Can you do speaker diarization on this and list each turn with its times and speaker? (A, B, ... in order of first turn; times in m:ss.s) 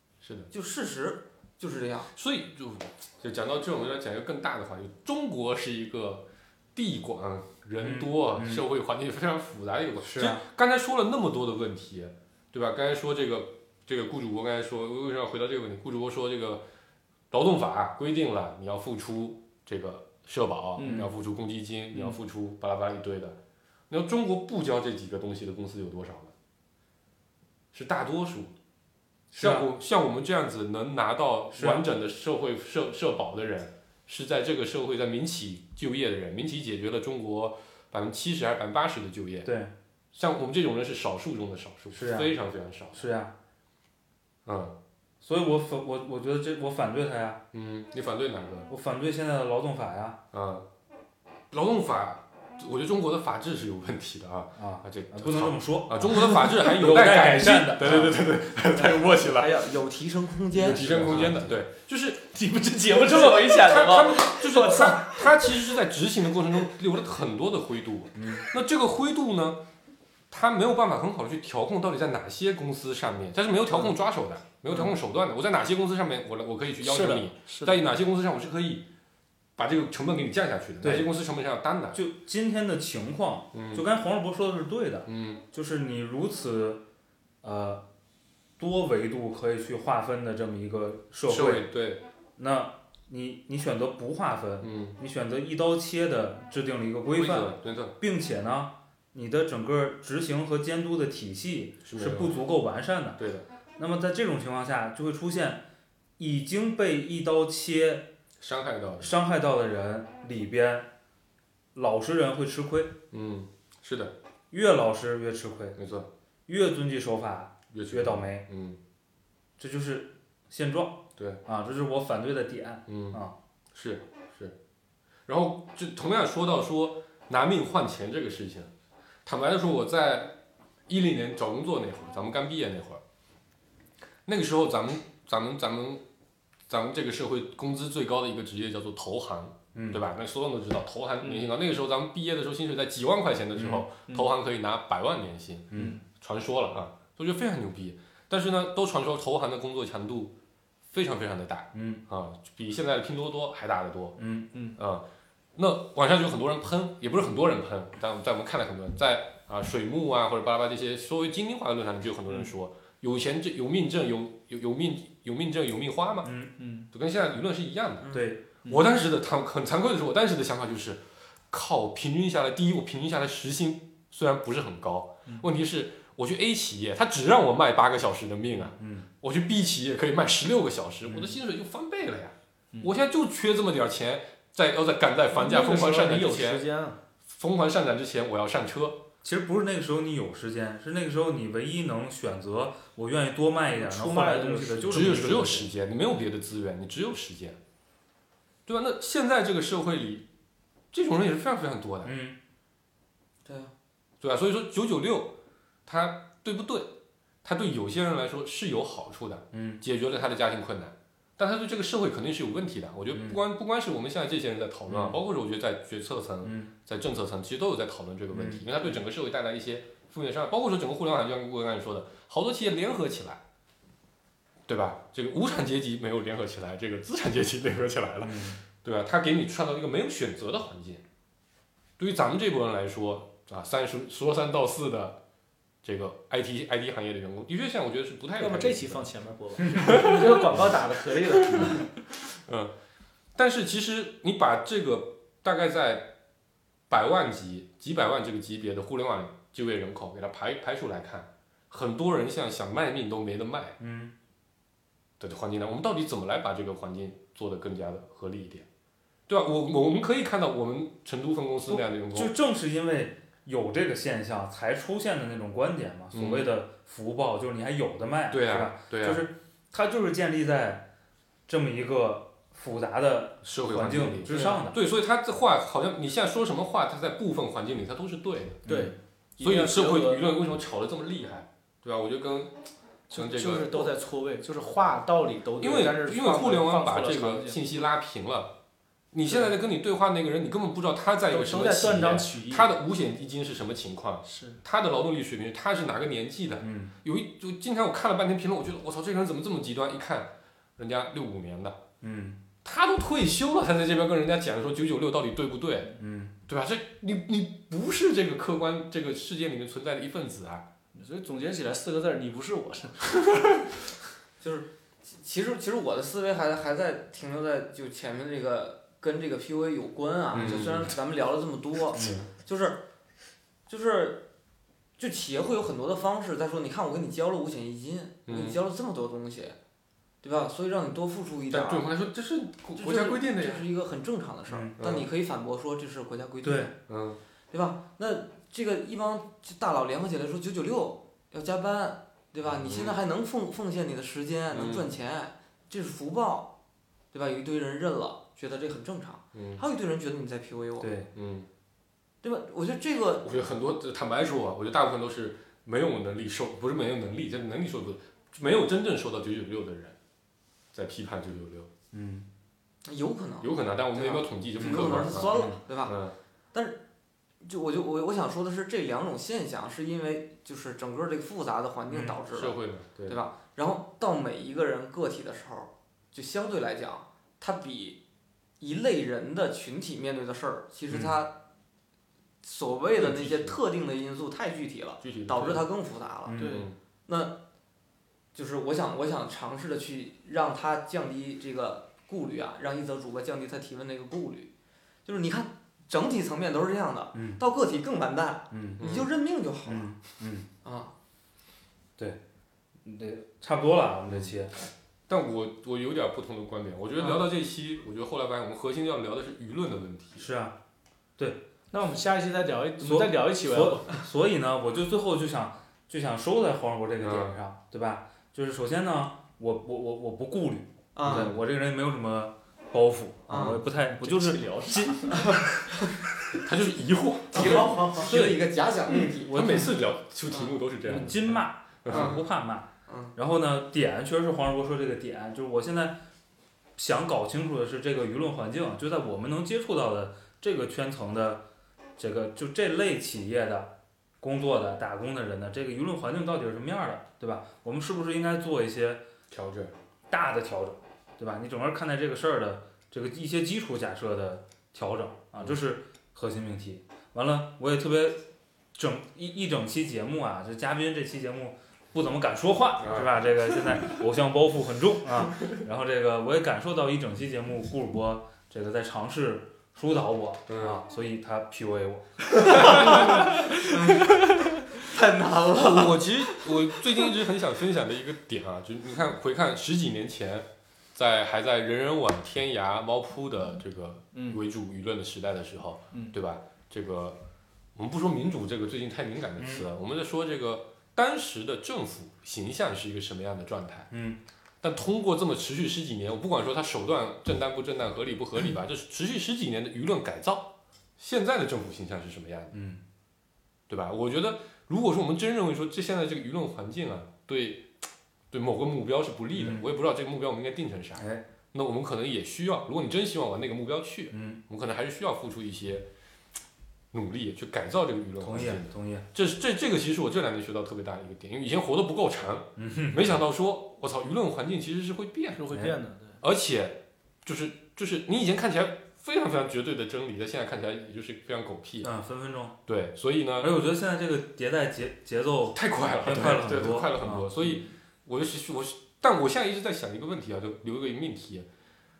0:00.2-0:00.5 A
0:00.5-0:02.1 B
0:02.1-0:16.6 A
0:07.8-0:08.6 C
0:10.0-0:10.4 C
0:17.3-0:23.4 A
0:20.8-0:21.1 D
0:23.9-0:26.3 A
0:27.7-0:28.5 A
0:29.3-0:29.7 C
0:29.3-0:39.5 A
0:31.5-0:31.9 C
0:39.4-0:39.7 C
0:40.1-0:43.1 A
0:41.9-0:42.3 C
0:42.9-0:43.3 C
0:44.4-0:44.7 A
0:45.2-0:47.4 C
0:47.5-0:48.7 A
0:48.7-0:50.2 C
0:50.3-0:50.6 A
0:51.5-0:59.7 A
0:54.6-0:58.2 C
0:58.8-1:01.2 B
1:00.5-1:02.3 A
1:00.6-1:01.5 C
1:02.3-1:05.4 D
1:03.0-1:09.6 A
1:08.1-1:08.5 C
1:10.3-1:18.8 A
1:16.8-1:17.8 D
1:19.6-1:22.0 A
1:20.8-1:21.1 C
1:21.9-1:26.8 C
1:23.5-1:23.8 A
1:25.0-1:25.4 A
1:27.4-1:27.8 C
1:28.6-1:31.7 C
1:31.3-1:32.0 A
1:32.4-1:43.2 C
1:34.6-1:35.0 A
1:37.1-1:37.9 A
1:41.8-1:42.4 A
1:43.2-1:43.4 A
1:43.8-1:45.6 C
1:46.2-1:48.1 C
1:48.4-1:49.1 A
1:49.0-1:50.9 C
1:51.7-1:53.0 C
1:53.1-1:54.1 A
1:54.5-1:55.8 C
1:55.8-1:56.1 A
1:56.5-1:58.4 C
1:57.7-1:58.8 A
1:59.6-2:03.3 C
2:02.9-2:03.2 A
2:03.7-2:04.5 A
2:05.3-2:08.7 A
2:09.2-2:10.4 A
2:10.9-2:13.0 A
2:14.2-2:16.0 A
2:16.7-2:30.3 A
2:19.7-2:20.0 C
2:21.2-2:21.5 D
2:23.5-2:23.8 C
2:30.9-2:34.2 A
2:31.7-2:32.0 C
2:34.2-2:34.5 C
2:34.8-2:35.0 A
2:35.6-2:46.3 A
2:46.2-2:46.5 C
2:46.6-2:46.9 D
2:46.9-3:06.6 A
2:48.0-2:48.3 B
2:48.1-2:48.4 C
2:58.7-2:59.1 C
3:01.0-3:01.4 C
3:05.3-3:07.0 D
3:07.3-3:09.0 A
3:09.2-3:15.7 C
3:13.7-3:15.4 D
3:14.9-3:17.6 A
3:18.7-3:20.2 A
3:20.9-3:22.1 A
3:22.0-3:22.4 C
3:23.4-3:23.7 B
3:24.2-3:25.3 A
3:25.8-3:26.9 A
3:27.4-3:43.4 A
3:29.5-3:29.8 C
3:33.1-3:33.4 C
3:34.9-3:35.2 C
3:36.4-3:36.7 C
3:38.3-3:38.7 C
3:44.7-3:51.0 A
3:48.2-3:48.6 C
3:52.0-3:55.2 A
3:55.8-3:59.0 A
3:58.4-4:01.9 D
3:59.7-4:00.6 A
4:01.5-4:01.8 A
4:02.4-4:02.7 A
4:03.3-4:06.1 A
4:06.9-4:13.8 A
4:13.8-4:14.1 C
4:15.2-4:18.6 A
4:19.3-4:22.3 A
4:21.7-4:30.9 C
4:26.1-4:26.5 A
4:28.3-4:29.2 A
4:31.5-4:34.8 C
4:33.4-4:38.6 A
4:34.3-4:34.6 B
4:38.6-4:38.9 C
4:38.6-4:40.3 D
4:39.4-4:43.9 A
4:43.1-4:47.6 D
4:45.6-4:48.5 A
4:49.1-5:01.8 A
4:51.3-4:52.7 D
4:54.2-4:54.6 D
4:56.6-4:56.9 C
5:02.0-5:02.4 C
5:02.6-5:05.9 A
5:06.0-5:06.3 C
5:06.5-5:10.6 A
5:10.9-5:13.2 D
5:13.2-5:13.5 A
5:14.4-5:22.8 B
5:20.3-5:21.0 A
5:21.9-5:22.2 C
5:22.0-5:22.3 A
5:23.7-5:24.2 B
5:25.0-5:29.6 B
5:28.3-5:28.6 A
5:30.2-5:31.8 B
5:31.5-5:33.7 A
5:32.8-5:36.7 B
5:34.5-5:34.8 C
5:34.8-5:35.1 A
5:36.4-5:36.7 C
5:36.9-5:37.2 A
5:37.5-5:46.5 B
5:42.4-5:43.0 A
5:44.5-5:44.9 A
5:47.1-5:50.9 B
5:49.3-5:49.6 A
5:50.8-5:51.1 C
5:51.1-5:51.5 A
5:52.2-5:53.3 B
5:53.2-6:00.0 A
6:00.7-6:01.7 A
6:01.9-6:02.3 C
6:02.8-6:06.0 B
6:03.4-6:06.2 A
6:04.6-6:05.6 C
6:06.5-6:06.8 B
6:07.4-6:12.6 B
6:11.9-6:12.2 C
6:12.3-6:13.2 A
6:13.1-6:18.0 B
6:18.6-6:21.3 B
6:20.9-6:21.2 C
6:22.4-6:26.4 B
6:23.0-6:23.6 A
6:25.0-6:25.7 A
6:26.2-6:26.6 C
6:26.4-6:26.7 D
6:26.4-6:26.8 A
6:27.1-6:27.4 B
6:28.3-6:34.5 B
6:35.0-6:39.9 B
6:37.1-6:37.4 C
6:38.5-6:38.8 C
6:38.8-6:39.1 A
6:39.6-6:40.5 C
6:40.6-6:40.9 B
6:42.8-6:44.5 C
6:44.1-6:44.3 A
6:45.1-6:50.2 A
6:50.2-6:50.6 C
6:51.2-6:51.4 C
6:51.7-6:53.9 D
6:52.8-7:05.3 C
6:57.0-6:57.4 A
7:01.0-7:01.3 B
7:01.0-7:01.3 A
7:03.3-7:03.6 B
7:04.0-7:05.3 D
7:05.2-7:05.9 B
7:06.3-7:08.4 A
7:07.3-7:09.7 B
7:07.4-7:08.2 D
7:09.1-7:12.2 A
7:10.8-7:16.0 C
7:11.9-7:12.2 B
7:12.9-7:13.1 B
7:16.8-7:21.4 C
7:22.0-7:29.0 C
7:29.3-7:29.7 A
7:30.1-7:38.2 C
7:38.7-7:53.2 C
7:42.8-7:43.9 A
7:50.5-7:50.8 A
7:52.4-7:54.7 A
7:52.5-7:54.2 B
7:54.7-7:56.4 B
7:55.5-8:07.2 A
8:04.1-8:04.4 D
8:07.7-8:13.9 A
8:09.4-8:09.6 C
8:13.9-8:14.2 C
8:14.6-8:22.6 A
8:22.5-8:22.8 C
8:23.7-8:27.7 A
8:28.3-8:35.8 A
8:29.3-8:29.6 C
8:31.0-8:31.2 C
8:34.1-8:34.4 C
8:36.9-8:45.4 A
8:38.2-8:39.1 C
8:42.6-8:43.2 C
8:45.3-8:46.2 D
8:46.2-8:51.9 A
8:51.8-8:52.6 C
8:52.6-8:53.5 A
8:53.4-8:57.6 C
8:55.5-9:01.5 A